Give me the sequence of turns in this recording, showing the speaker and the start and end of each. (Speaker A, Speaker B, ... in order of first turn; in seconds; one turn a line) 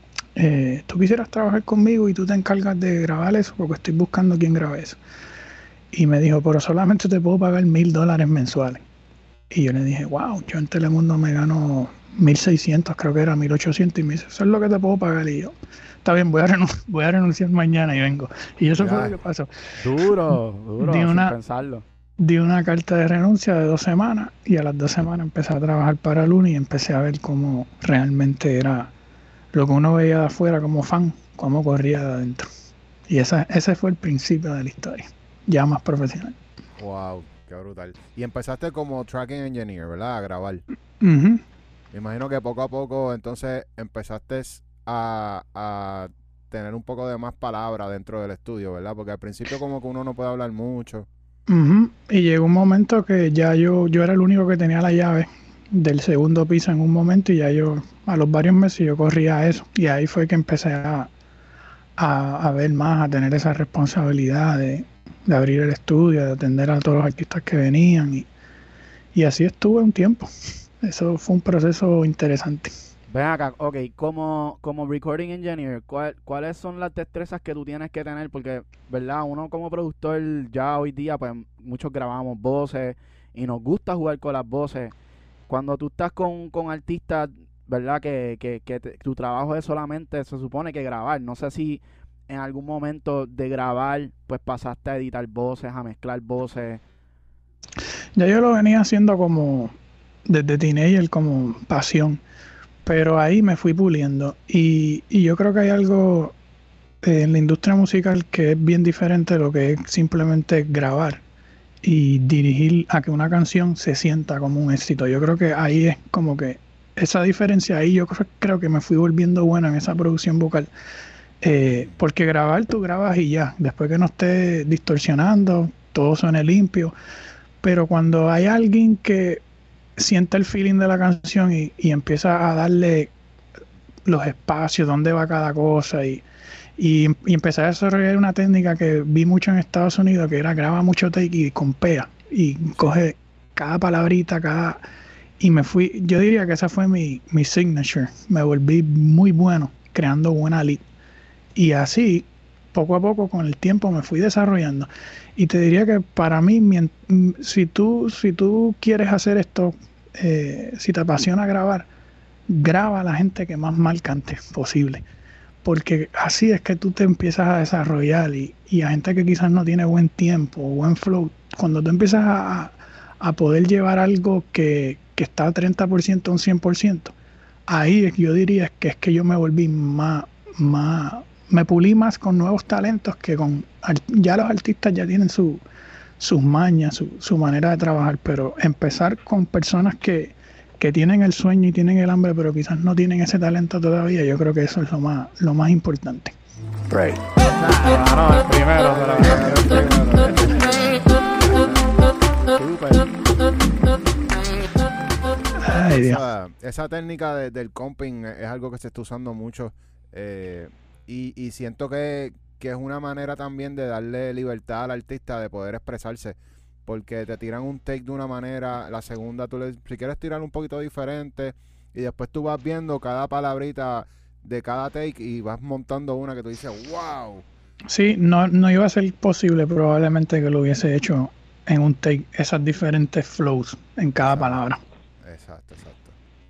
Speaker A: 0.3-5.0
Speaker A: 5.9-8.8
Speaker A: 9.5-19.5
Speaker B: 18.8-19.1
Speaker C: 19.8-21.8
Speaker A: 20.8-21.4
Speaker A: 22.2-28.9
Speaker A: 29.5-32.5
Speaker A: 33.1-36.4
Speaker B: 36.8-40.6
Speaker A: 41.0-41.4
Speaker B: 41.9-51.1
Speaker A: 51.5-61.1
Speaker A: 62.0-68.3
Speaker A: 69.1-72.7
Speaker C: 73.1-84.9
Speaker C: 85.5-96.8
Speaker A: 98.2-99.7
Speaker A: 100.2-102.2
Speaker A: 102.8-106.3
Speaker A: 107.0-111.2
Speaker A: 111.8-120.7
Speaker A: 121.4-126.9
Speaker B: 121.8-122.0
Speaker A: 127.6-129.4
Speaker A: 129.9-133.1
Speaker A: 134.0-136.2
Speaker A: 136.8-144.8
Speaker A: 145.4-150.8
Speaker A: 151.5-161.9
Speaker A: 162.5-165.0
Speaker A: 165.6-177.1
Speaker A: 177.7-185.6
Speaker A: 186.2-196.3
Speaker A: 196.9-197.2
Speaker C: 197.4-201.0
Speaker B: 198.8-201.8
Speaker C: 202.5-203.2
Speaker B: 205.6-227.4
Speaker A: 205.6-206.2
Speaker A: 227.9-234.8
Speaker B: 234.2-234.6
Speaker B: 235.2-236.1